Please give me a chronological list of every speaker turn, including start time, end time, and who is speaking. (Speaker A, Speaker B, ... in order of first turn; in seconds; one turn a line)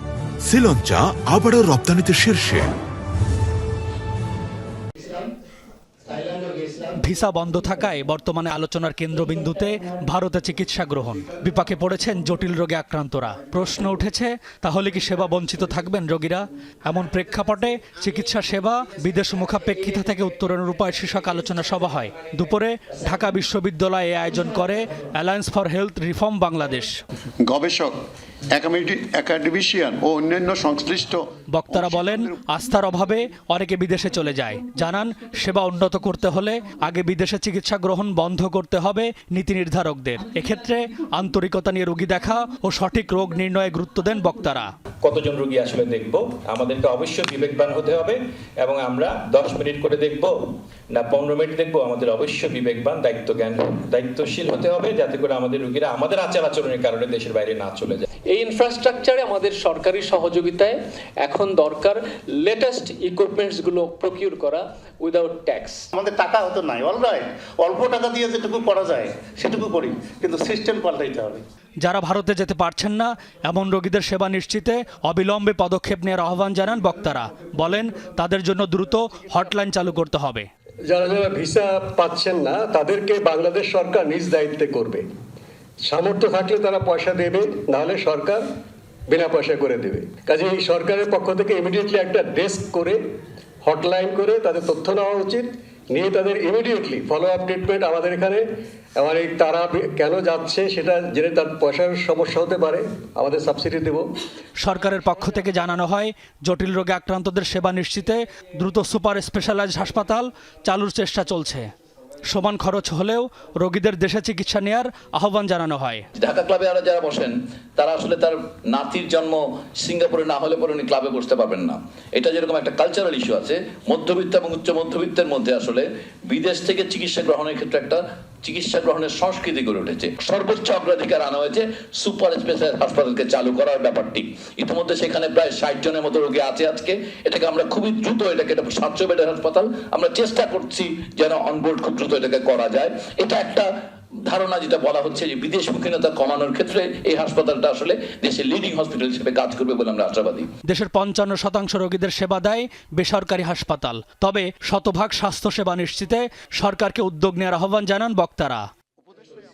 Speaker A: 0.4-2.7
Speaker B: 6.8-27.0
Speaker C: 27.4-28.0
Speaker C: 28.5-32.4
Speaker B: 31.5-44.7
Speaker D: 45.0-58.0
Speaker E: 58.3-65.9
Speaker F: 65.9-71.4
Speaker B: 71.8-80.5
Speaker G: 80.9-85.0
Speaker G: 85.9-88.4
Speaker G: 89.1-93.0
Speaker G: 93.6-98.4
Speaker G: 99.0-104.0
Speaker B: 104.6-111.7
Speaker B: 112.3-116.0
Speaker H: 116.2-143.7
Speaker H: 144.3-150.5
Speaker B: 150.7-158.7